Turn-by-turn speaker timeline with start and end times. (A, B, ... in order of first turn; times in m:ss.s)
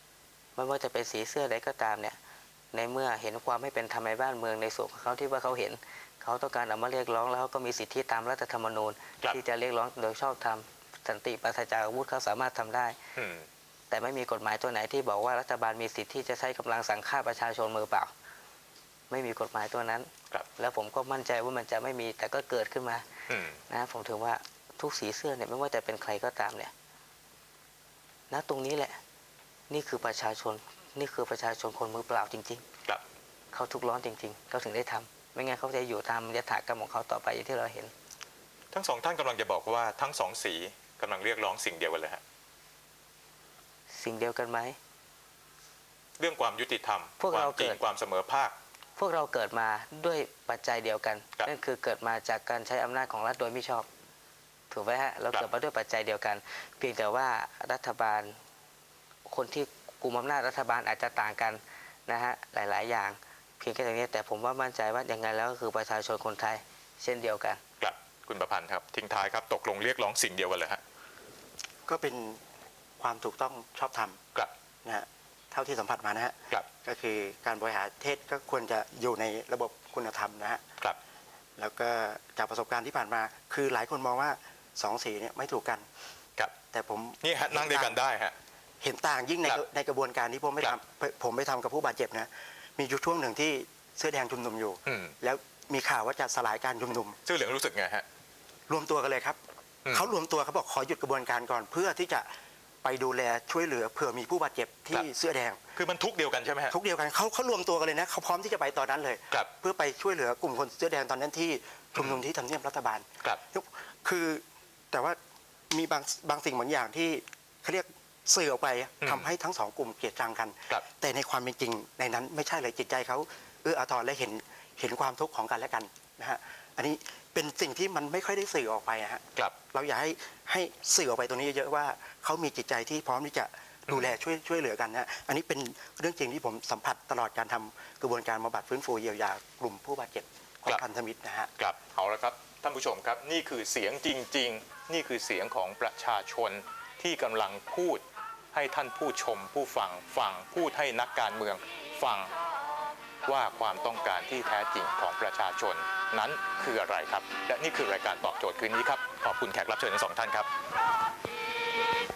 0:00.6-0:02.2 A
0:02.7-0:13.0 A
0:13.2-0:13.5 B
0:13.9-0:18.1 A
0:19.1-0:23.0 A
0:23.3-0:23.6 B
0:23.7-0:26.7 A
0:28.3-0:29.0 A
0:29.7-0:32.6 A
0:33.5-0:37.9 A
0:38.7-0:42.2 B
0:43.9-0:44.8 A
0:46.2-0:48.5 B
0:47.2-0:47.8 A
0:49.0-0:53.9 A
0:54.7-0:58.4 A
0:59.2-1:07.6 A
1:07.8-1:10.8 B
1:11.9-1:12.4 C
1:13.0-1:14.2 C
1:14.8-1:20.6 C
1:21.6-1:25.8 C
1:26.7-1:28.0 C
1:27.2-1:28.4 B
1:28.8-1:37.2 C
1:34.8-1:35.1 B
1:37.2-1:38.0 B
1:38.7-1:39.4 C
1:39.9-1:42.3 C
1:42.8-1:45.6 C
1:45.7-1:46.7 B
1:46.7-1:55.2 C
1:55.7-2:21.5 C
1:59.0-1:59.3 B
2:13.9-2:14.1 B
2:21.6-2:32.3 B
2:33.2-2:40.5 B